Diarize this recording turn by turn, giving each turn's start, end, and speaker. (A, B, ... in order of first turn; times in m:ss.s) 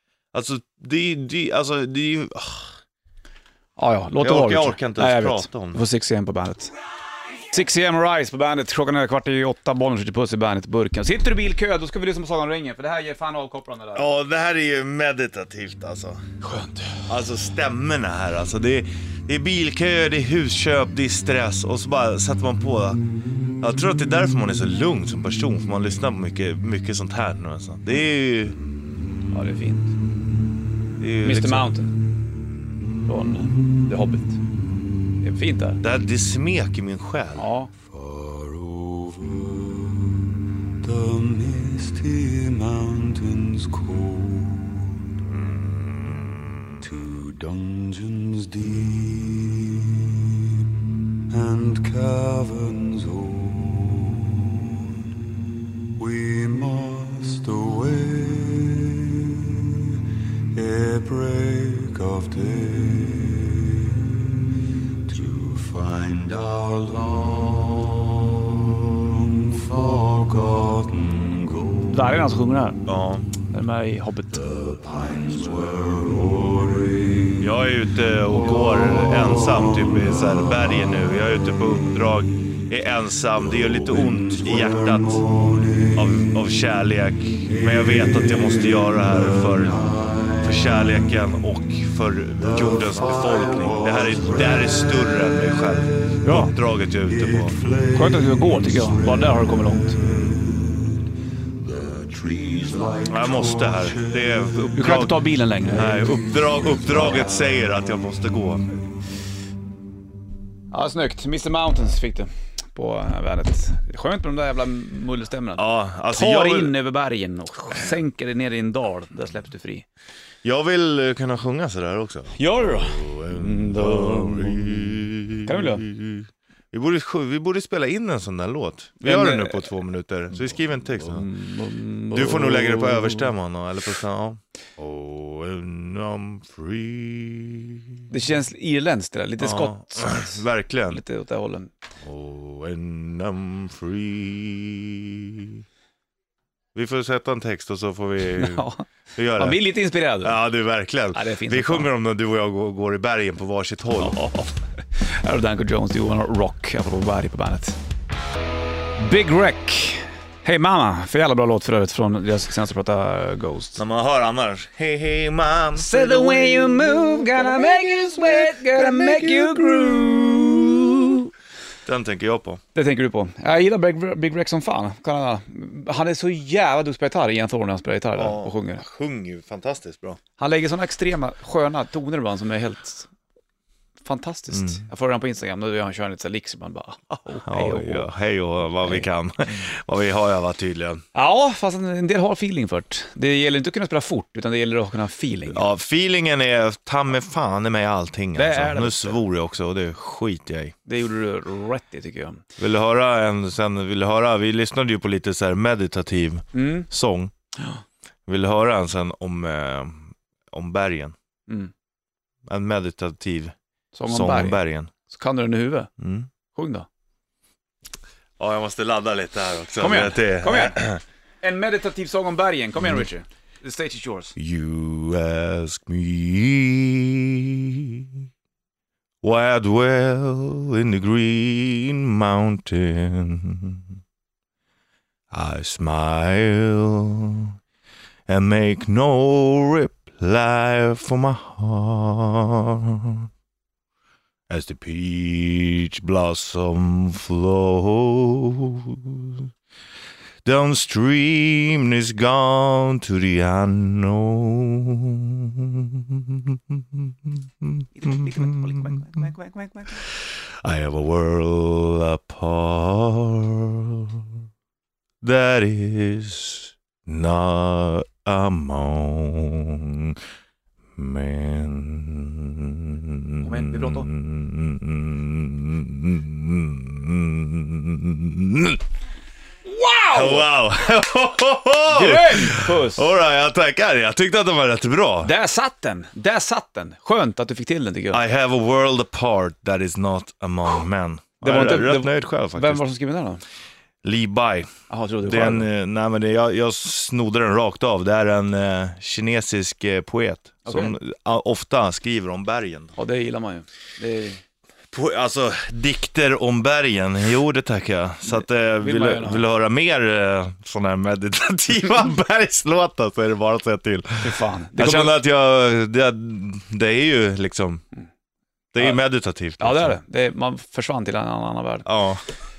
0:00.3-0:02.7 A
0:03.8-0:06.7 B
0:04.2-0:05.8 A
0:07.4-0:14.1 B
0:14.0-0:16.2 A
0:16.4-0:17.0 B
0:17.1-0:23.0 A
0:23.6-0:28.6 A
0:29.3-0:29.9 B
0:31.0-0:31.7 A
0:31.2-0:31.9 B
0:33.0-0:34.4 B
0:35.2-0:35.8 B
0:35.8-0:37.4 A
0:37.4-0:37.7 B
0:38.0-0:39.6 C
0:40.8-0:44.8 C
0:45.9-0:46.3 A
0:47.0-0:50.0 C
0:51.3-0:54.4 C
0:56.0-0:59.6 C
1:00.5-1:04.1 C
1:05.0-1:11.7 C
1:11.9-1:12.8 B
1:12.8-1:13.3 A
1:13.5-1:14.5 B
1:14.8-1:17.2 C
1:17.4-1:25.4 A
1:25.5-1:25.8 C
1:25.9-1:37.6 A
1:36.2-1:36.5 B
1:37.6-1:37.9 C
1:37.9-1:40.0 B
1:40.0-1:40.4 A
1:40.4-1:40.8 C
1:41.7-1:43.0 C
1:43.0-1:48.6 A
1:44.7-1:46.2 B
1:50.7-1:59.8 B
1:55.6-1:56.7 A
2:00.4-2:11.3 A
2:02.3-2:05.8 B
2:09.0-2:09.7 B
2:11.0-2:13.3 B
2:12.1-2:18.0 A
2:18.1-2:21.7 B
2:19.4-2:21.0 A
2:22.0-2:25.6 A
2:26.7-2:29.6 A
2:28.4-2:28.8 B
2:29.4-2:30.4 B
2:30.2-2:34.2 A
2:31.1-2:31.9 B
2:34.0-2:37.8 B
2:39.0-2:43.8 B
2:43.8-2:47.0 A
2:45.7-2:51.2 B
2:49.4-2:49.7 A
2:51.8-2:52.6 A
2:52.7-2:58.8 B
2:58.2-3:00.2 A
3:00.4-3:03.1 B
3:04.0-3:08.1 B
3:04.5-3:04.8 A
3:07.4-3:11.0 A
3:08.8-3:09.0 B
3:11.1-3:15.6 B
3:15.5-3:20.7 A
3:18.3-3:19.2 B
3:20.8-3:22.4 B
3:22.6-3:27.3 A
3:26.5-3:26.9 B
3:28.3-3:31.1 A
3:32.5-3:33.5 A
3:33.9-3:35.9 B
3:34.1-3:34.9 A
3:36.0-3:36.3 A
3:36.5-3:36.9 B
3:38.4-3:41.0 A
3:39.8-3:40.8 B
3:41.4-3:44.4 B
3:44.4-3:48.1 A
3:49.2-3:53.8 A
3:55.3-3:57.5 A
3:58.3-4:03.2 A
4:04.5-4:09.5 A
4:10.4-4:19.1 A
4:18.1-4:19.9 B
4:20.6-4:24.2 A
4:25.2-4:30.2 A
4:31.0-4:38.8 A
4:33.4-4:34.1 B
4:39.6-4:40.5 B
4:40.1-4:45.3 A
4:41.9-4:43.1 B
4:45.2-4:48.2 B
4:48.1-4:52.8 A
4:51.4-4:53.4 B
4:54.0-4:54.7 A
4:54.9-4:55.7 B
4:55.2-5:03.0 A
5:00.6-5:00.9 B
5:03.0-5:04.4 B
5:04.9-5:17.8 A
5:08.3-5:09.4 B
5:14.2-5:15.2 B
5:18.7-5:19.9 A
5:19.6-5:21.8 B
5:21.8-5:22.2 A